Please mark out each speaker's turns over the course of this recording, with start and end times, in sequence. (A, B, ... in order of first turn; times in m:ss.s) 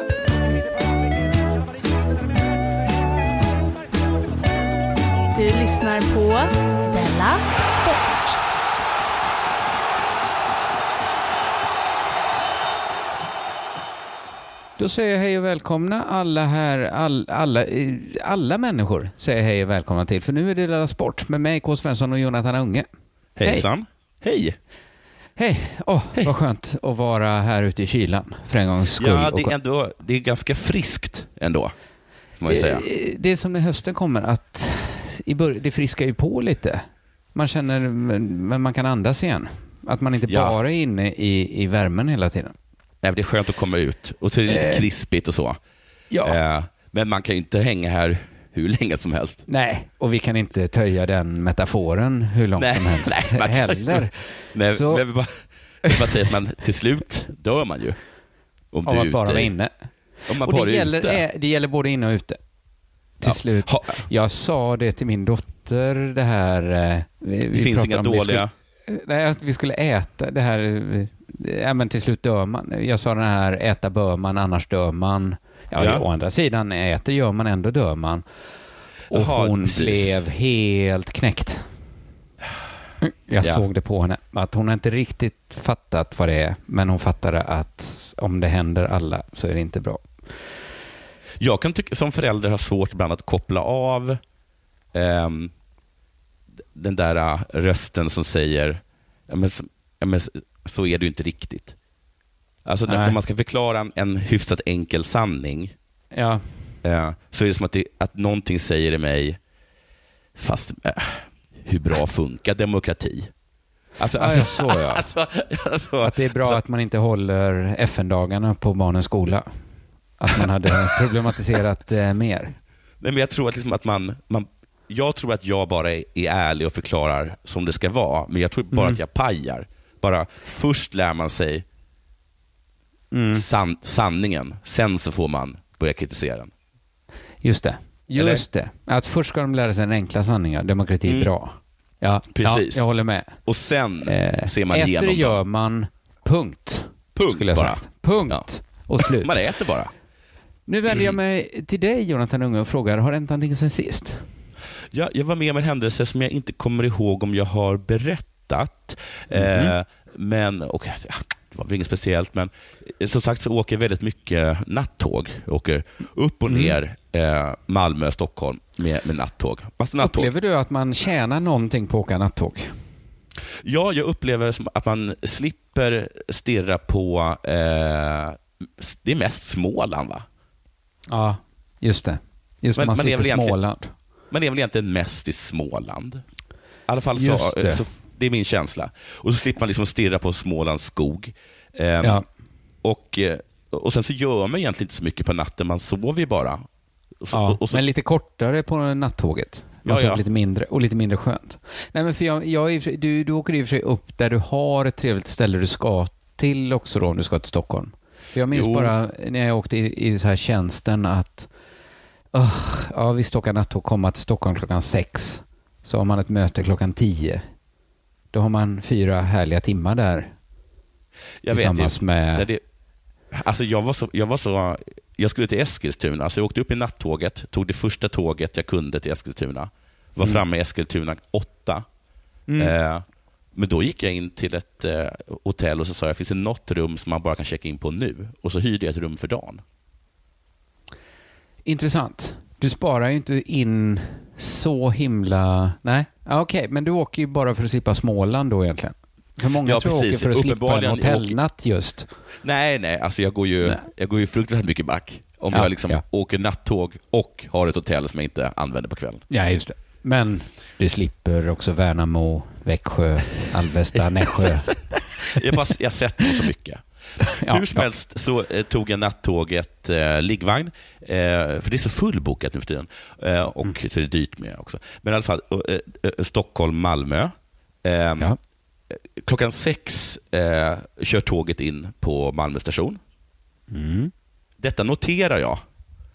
0:05.3-0:08.4 A
0:14.8-0:22.9 B
0:23.4-0:24.6 C
0:25.4-0:29.5 B
0:29.0-0:31.7 C
0:32.4-0:32.8 C
0:32.4-0:42.5 B
0:40.3-0:40.6 C
0:43.0-0:45.6 C
0:44.5-0:44.8 B
0:46.1-0:46.4 B
0:46.2-0:49.4 C
0:49.5-0:55.0 B
0:52.6-0:58.0 C
0:58.7-0:59.5 C
0:58.8-0:59.7 B
1:00.3-1:01.2 C
1:00.4-1:02.4 B
1:03.2-1:18.2 B
1:03.2-1:04.0 C
1:07.5-1:08.5 C
1:15.8-1:16.0 C
1:19.1-1:21.6 B
1:19.1-1:20.2 C
1:23.0-1:30.1 B
1:31.4-1:34.2 C
1:34.9-1:35.5 C
1:36.7-1:41.8 C
1:42.6-1:45.7 C
1:42.9-1:43.2 B
1:46.1-1:46.4 B
1:46.8-1:49.4 C
1:50.4-1:53.3 C
1:54.0-1:56.6 C
1:54.1-1:55.0 B
1:56.0-1:59.5 B
2:00.2-2:02.5 B
2:00.4-2:01.1 C
2:03.0-2:11.6 C
2:08.7-2:09.0 B
2:13.1-2:13.4 B
2:13.3-2:16.5 C
2:17.4-2:23.3 B
2:18.2-2:18.4 C
2:21.0-2:21.3 C
2:22.3-2:22.9 C
2:23.4-2:25.4 C
2:24.0-2:29.4 B
2:27.1-2:28.4 C
2:29.0-2:29.9 C
2:30.7-2:34.2 B
2:34.9-2:50.3 C
2:39.3-2:39.7 B
2:46.4-2:46.8 B
2:50.0-2:52.7 B
2:53.6-3:00.2 C
3:01.1-3:03.9 B
3:02.8-3:03.6 C
3:04.3-3:06.2 C
3:06.9-3:12.2 C
3:07.1-3:07.8 B
3:12.8-3:16.6 C
3:17.2-3:17.8 C
3:17.3-3:31.5 B
3:19.8-3:20.2 C
3:28.5-3:28.9 C
3:32.3-3:37.4 B
3:38.3-3:40.3 B
3:41.4-3:42.6 C
3:41.5-3:42.5 B
3:43.3-3:51.8 C
3:52.5-3:52.7 B
3:52.6-3:53.0 C
3:53.5-3:59.6 C
4:01.6-4:12.1 B
4:09.6-4:11.3 C
4:12.4-4:19.2 C
4:15.5-4:16.0 B
4:19.3-4:24.7 B
4:24.2-4:37.3 C
4:27.2-4:27.9 B
4:37.8-4:38.3 C
4:38.9-4:43.0 C
4:43.7-4:44.1 B
4:44.6-4:45.6 C